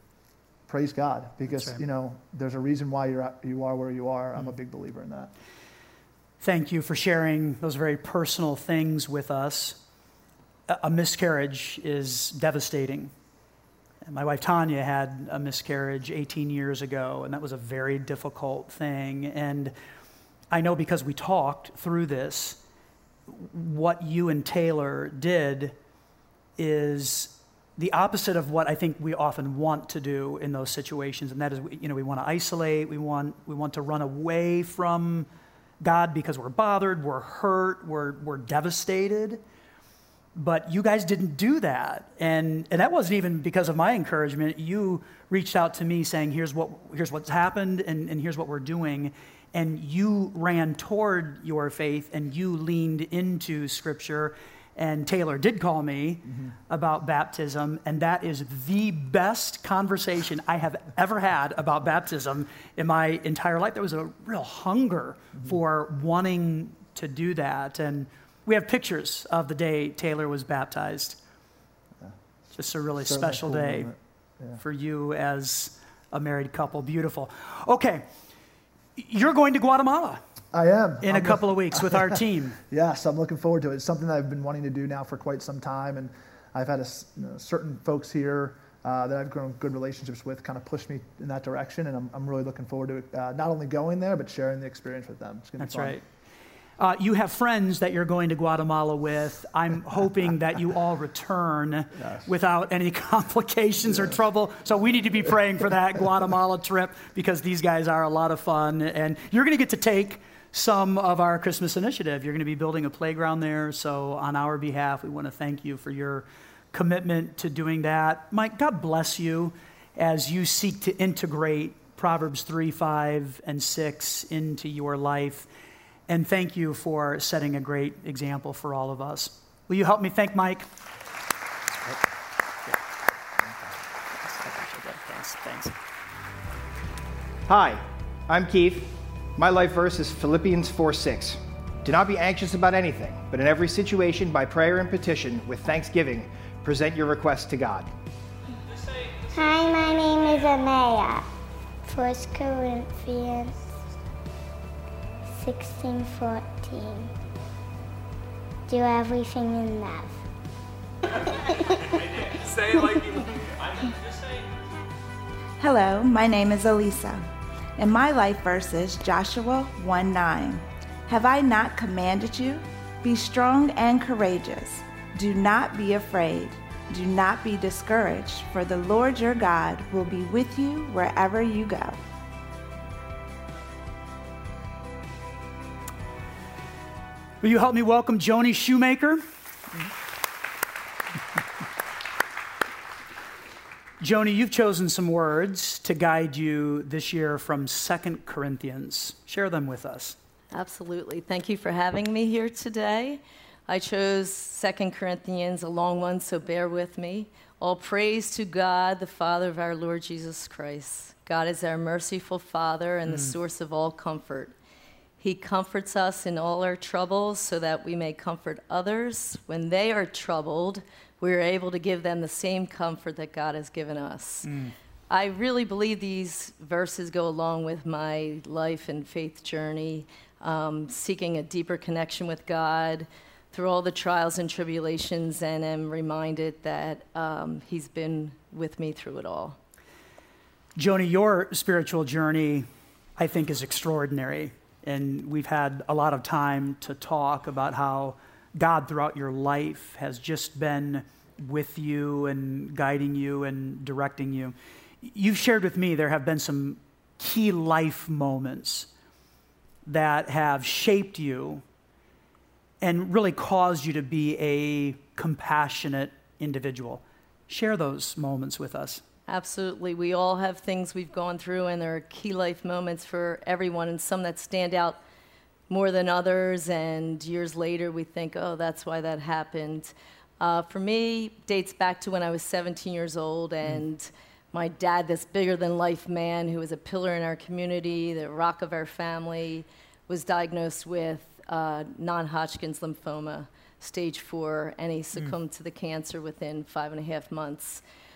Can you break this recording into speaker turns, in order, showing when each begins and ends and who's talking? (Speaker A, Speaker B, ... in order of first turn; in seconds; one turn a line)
Speaker A: 0.7-5.3
Speaker B: 1.5-1.8
Speaker B: 6.4-9.8
Speaker B: 10.7-13.1
Speaker B: 14.1-19.7
Speaker B: 20.5-22.6
Speaker B: 23.3-25.8
Speaker B: 26.6-35.3
Speaker B: 35.8-39.4
Speaker B: 40.4-71.2
Speaker B: 72.5-73.9
Speaker A: 73.0-74.6
Speaker B: 74.6-78.0
Speaker B: 79.0-80.2
Speaker A: 80.5-96.0
Speaker B: 81.0-82.6
Speaker B: 95.6-96.0
Speaker B: 96.8-125.5
Speaker B: 126.1-130.7
Speaker B: 131.7-132.1
Speaker B: 134.1-135.7
Speaker C: 137.5-147.9
Speaker D: 149.3-151.3
Speaker D: 151.8-153.5
Speaker D: 155.3-157.1
Speaker D: 158.7-160.2
Speaker E: 165.6-182.0
Speaker B: 187.4-189.3
Speaker B: 194.0-200.2
Speaker F: 200.5-214.6
Speaker F: 215.2-224.5
Speaker B: 224.4-224.7
Speaker F: 225.1-239.6
Speaker B: 240.8-258.9
Speaker B: 259.9-261.6
Speaker B: 262.8-269.0
Speaker F: 269.3-275.0
Speaker F: 275.7-297.8